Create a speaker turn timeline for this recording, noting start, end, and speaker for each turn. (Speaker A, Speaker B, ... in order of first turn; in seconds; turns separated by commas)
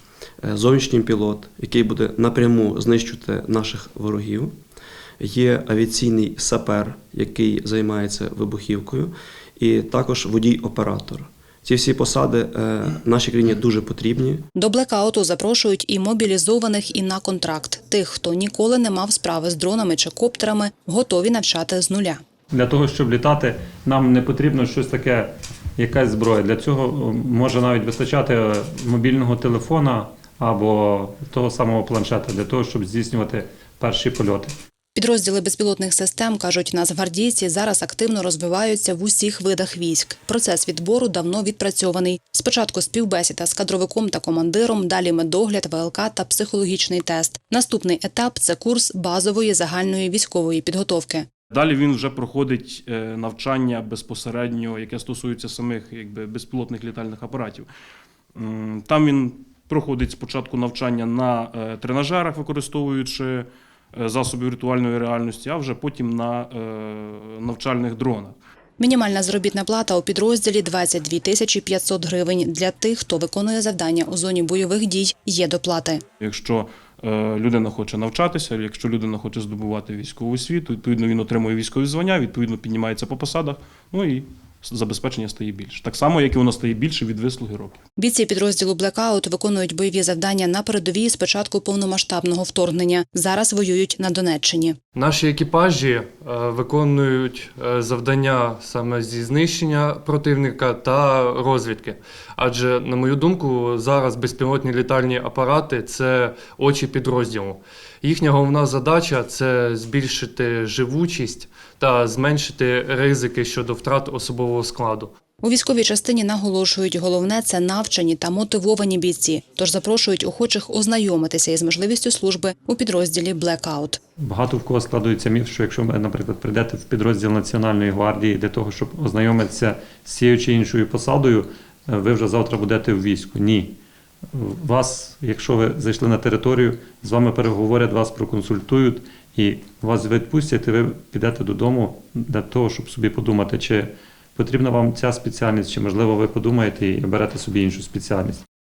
Speaker A: 0.4-4.5, Speaker A: 5.2-14.4, Speaker B: 14.6-22.2, Speaker C: 22.5-34.5, Speaker B: 34.9-51.3, Speaker D: 51.5-57.7, Speaker D: 58.3-68.4, Speaker B: 68.8-76.0, Speaker D: 76.2-87.8, Speaker B: 88.0-94.8, Speaker E: 94.9-115.1, Speaker B: 115.4-124.0, Speaker C: 124.2-133.7, Speaker C: 134.3-148.4